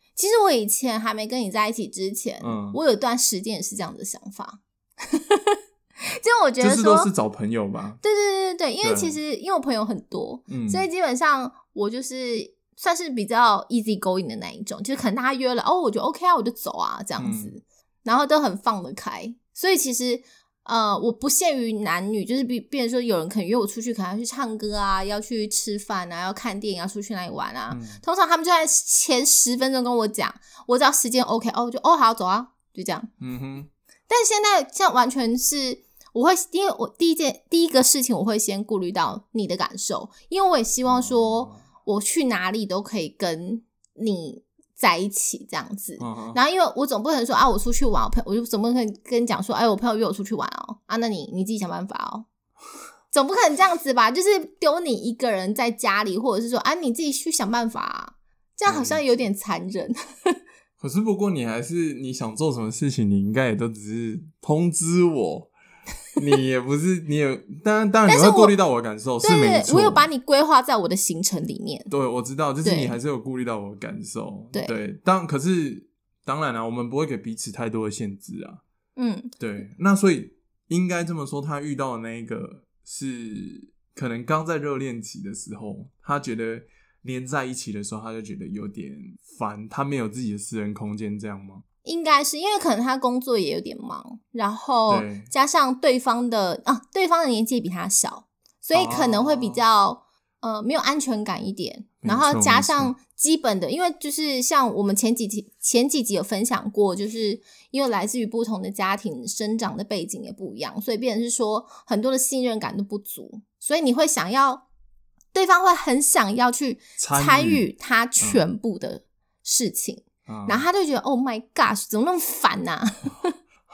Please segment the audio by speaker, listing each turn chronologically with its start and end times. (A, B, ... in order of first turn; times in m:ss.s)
0:00.2-0:07.1 A
0:02.4-0:02.8 B
0:06.6-0:08.0 B
0:08.0-0:33.1 A
0:08.8-0:09.2 B
0:10.5-0:10.9 B
0:17.2-0:17.6 B
0:27.7-0:28.0 B
0:33.2-0:33.7 B
0:34.1-0:52.3 A
0:40.8-0:41.7 B
0:46.0-0:46.4 B
0:53.1-1:00.4 A
0:58.7-0:59.0 B
1:00.8-1:05.5 B
1:06.2-1:10.1 B
1:08.1-1:08.6 A
1:09.2-1:11.9 A
1:11.9-1:18.6 B
1:12.6-1:13.0 A
1:19.0-1:19.4 A
1:19.4-1:31.6 B
1:31.8-1:54.7 A
1:34.9-1:35.3 B
1:38.7-1:39.6 B
1:42.0-1:43.0 B
1:55.3-2:03.4 A
1:57.0-1:57.7 B
1:58.2-1:58.4 B
2:00.3-2:00.7 B